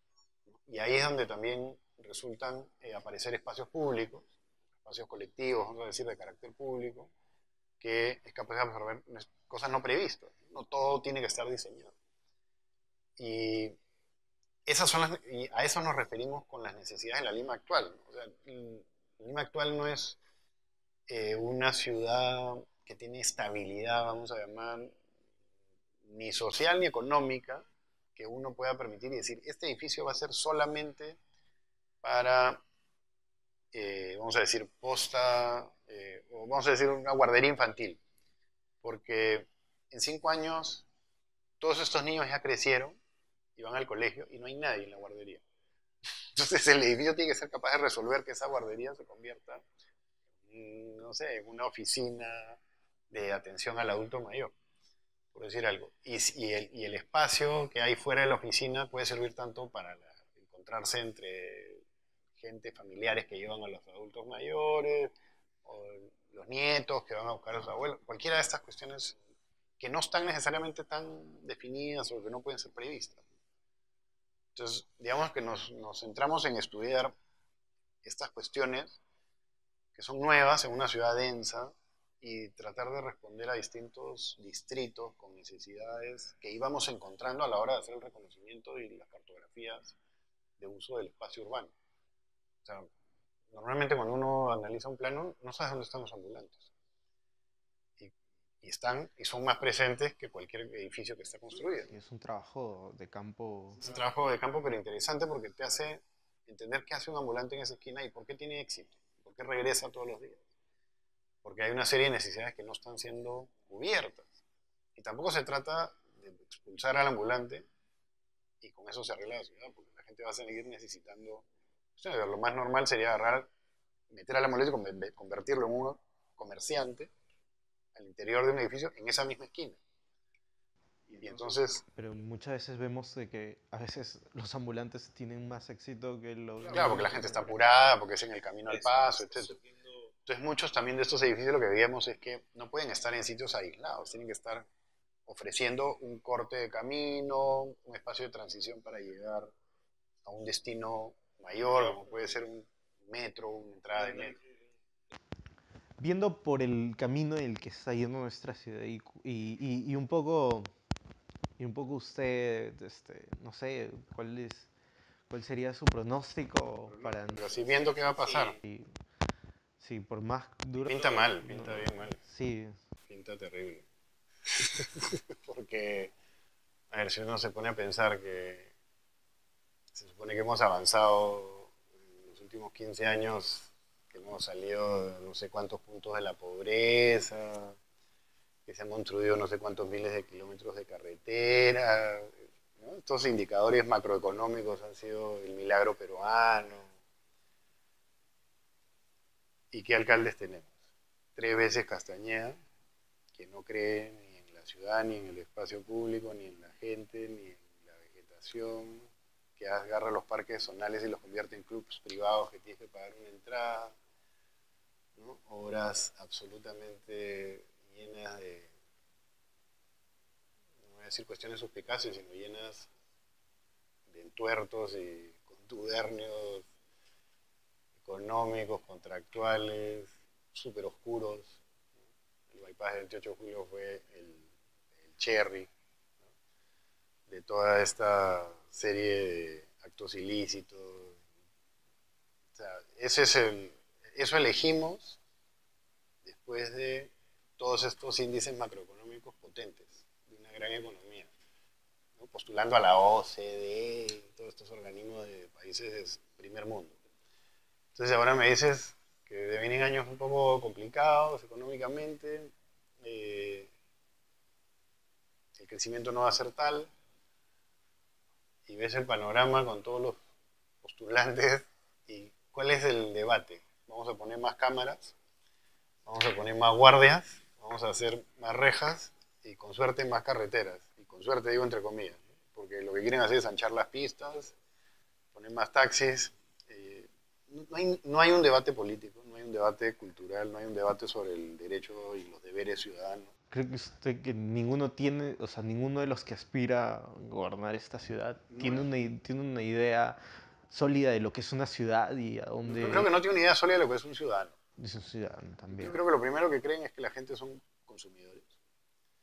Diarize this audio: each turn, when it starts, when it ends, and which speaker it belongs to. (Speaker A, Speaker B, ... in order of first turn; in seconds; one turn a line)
Speaker A: 0.5-7.1
Speaker A: 7.8-11.9
Speaker A: 13.2-13.8
Speaker A: 14.7-20.2
Speaker A: 21.1-24.9
Speaker A: 26.0-31.2
Speaker A: 32.0-32.6
Speaker A: 33.7-38.0
Speaker A: 38.8-40.9
Speaker A: 41.6-43.0
Speaker A: 43.5-45.4
Speaker A: 46.3-49.6
Speaker A: 50.5-52.6
Speaker A: 53.1-54.5
Speaker A: 55.3-61.8
Speaker A: 62.4-65.1
Speaker A: 65.6-69.2
Speaker A: 69.8-73.2
Speaker A: 74.5-77.1
Speaker A: 78.0-79.0
Speaker A: 79.9-90.0
Speaker A: 90.6-91.7
Speaker A: 93.5-96.7
Speaker A: 98.0-101.9
Speaker B: 101.9-103.8
Speaker A: 103.8-110.4
Speaker A: 111.4-114.4
Speaker A: 115.0-117.7
Speaker A: 118.6-121.4
Speaker A: 122.0-123.5
Speaker A: 124.1-127.1
Speaker A: 127.9-129.8
Speaker A: 131.1-131.8
Speaker B: 131.9-137.6
Speaker A: 136.7-139.6
Speaker A: 140.2-144.6
Speaker A: 145.3-149.5
Speaker A: 150.2-154.4
Speaker B: 156.0-160.7
Speaker B: 161.6-164.7
Speaker B: 165.3-167.5
Speaker A: 167.3-168.6
Speaker B: 168.6-168.9
Speaker B: 169.8-172.8
Speaker A: 170.8-172.2
Speaker A: 173.1-173.8
Speaker A: 174.5-176.1
Speaker A: 176.9-178.7
Speaker A: 179.9-187.8
Speaker A: 188.7-196.9
Speaker A: 199.7-200.7
Speaker A: 201.3-202.6
Speaker A: 203.3-214.0
Speaker A: 215.2-218.7
Speaker A: 220.8-222.9
Speaker A: 224.1-226.7
Speaker A: 228.0-231.6
Speaker A: 232.5-235.7
Speaker A: 237.3-241.2
Speaker A: 242.5-245.2
Speaker A: 246.2-251.3
Speaker A: 252.2-257.0
Speaker A: 257.9-263.7
Speaker A: 265.6-266.9
Speaker A: 268.7-270.2
Speaker A: 270.8-275.1
Speaker A: 276.1-284.5
Speaker A: 285.3-293.3
Speaker B: 293.5-300.2
Speaker A: 298.5-298.8
Speaker B: 300.7-303.1
Speaker A: 302.7-304.5
Speaker B: 304.8-305.9
Speaker A: 305.7-308.6